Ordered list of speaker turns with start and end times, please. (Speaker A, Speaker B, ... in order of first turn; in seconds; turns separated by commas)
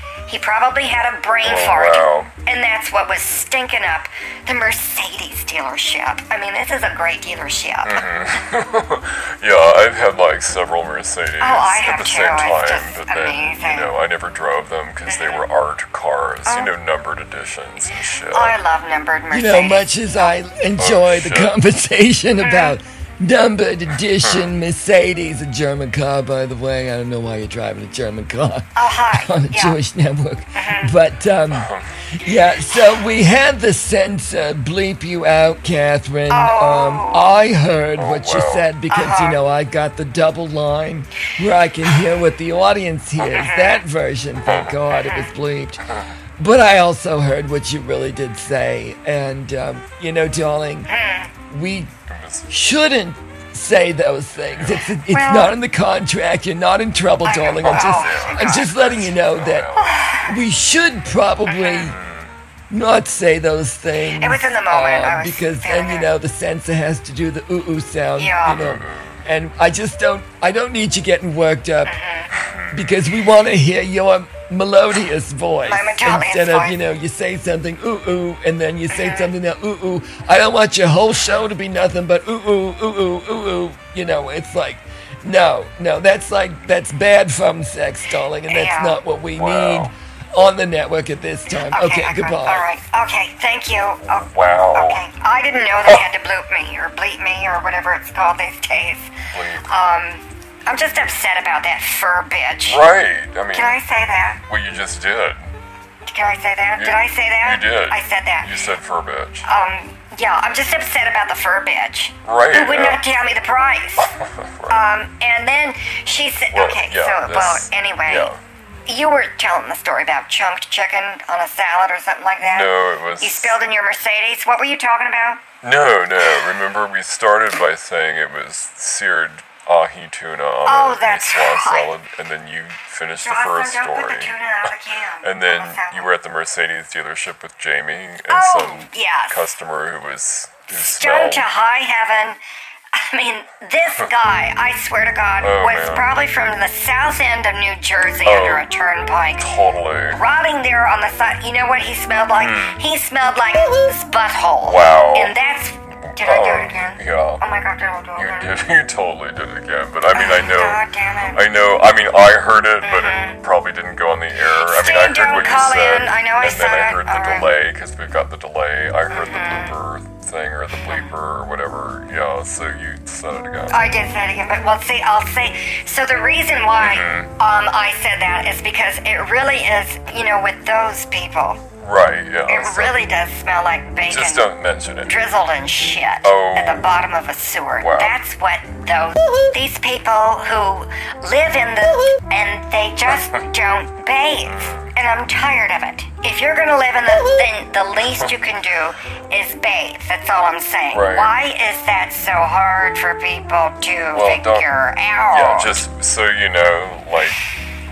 Speaker A: 0.3-8.1, Speaker B: 1.4-2.3, Speaker B: 7.8-18.6, Speaker A: 11.4-13.9, Speaker A: 15.1-15.4, Speaker A: 16.5-16.7, Speaker A: 18.3-20.3, Speaker C: 19.3-45.9, Speaker B: 20.8-21.6, Speaker A: 22.4-22.8, Speaker A: 28.8-29.8, Speaker A: 30.5-30.9, Speaker B: 31.5-31.9, Speaker A: 36.3-37.3, Speaker B: 38.0-38.7, Speaker A: 38.9-39.4, Speaker A: 43.2-43.9, Speaker B: 44.5-44.8, Speaker A: 44.9-45.3, Speaker C: 46.4-50.9, Speaker A: 50.9-51.3, Speaker C: 51.5-51.9, Speaker B: 52.1-52.5, Speaker C: 52.5-62.0, Speaker B: 54.5-54.8, Speaker A: 55.1-55.6, Speaker A: 57.2-58.9, Speaker B: 57.6-60.2, Speaker A: 59.8-60.3, Speaker A: 61.5-61.9, Speaker B: 61.8-62.3, Speaker C: 62.7-72.0, Speaker A: 64.2-66.1, Speaker A: 68.2-68.6, Speaker B: 68.5-69.2, Speaker A: 71.8-72.3, Speaker B: 72.3-73.0, Speaker C: 72.7-92.7, Speaker A: 75.7-76.8, Speaker A: 78.9-79.3, Speaker A: 88.5-89.0, Speaker B: 89.3-89.9, Speaker A: 91.5-99.1, Speaker B: 94.1-95.0, Speaker B: 99.3-99.7, Speaker A: 99.6-102.8, Speaker B: 102.7-103.8, Speaker A: 103.5-104.4, Speaker B: 104.5-105.5, Speaker A: 106.1-108.6, Speaker B: 106.8-109.5, Speaker A: 109.5-114.1, Speaker B: 112.2-113.0, Speaker B: 114.0-114.9, Speaker A: 114.7-118.3, Speaker B: 116.5-118.4, Speaker A: 118.9-125.4, Speaker B: 122.4-123.6, Speaker B: 125.6-134.3, Speaker A: 130.7-131.9, Speaker A: 133.2-136.1, Speaker B: 135.2-141.5, Speaker A: 138.3-139.4, Speaker A: 140.8-142.4, Speaker A: 142.9-149.5, Speaker B: 145.4-146.2, Speaker B: 148.2-148.7, Speaker B: 149.3-150.2, Speaker A: 150.1-158.6, Speaker B: 152.4-152.8, Speaker B: 154.6-155.4, Speaker B: 156.0-157.4, Speaker B: 158.2-173.9, Speaker A: 160.1-161.5, Speaker A: 162.8-163.4, Speaker A: 164.6-167.5, Speaker A: 169.1-169.8, Speaker A: 170.9-171.1, Speaker A: 173.7-181.6, Speaker B: 176.8-177.3, Speaker B: 181.8-183.0, Speaker A: 182.5-184.5, Speaker B: 184.1-185.1, Speaker A: 185.0-205.8, Speaker B: 186.2-186.9, Speaker B: 187.8-188.2, Speaker B: 194.5-194.9, Speaker B: 200.9-201.3, Speaker B: 204.1-204.7, Speaker B: 205.3-207.4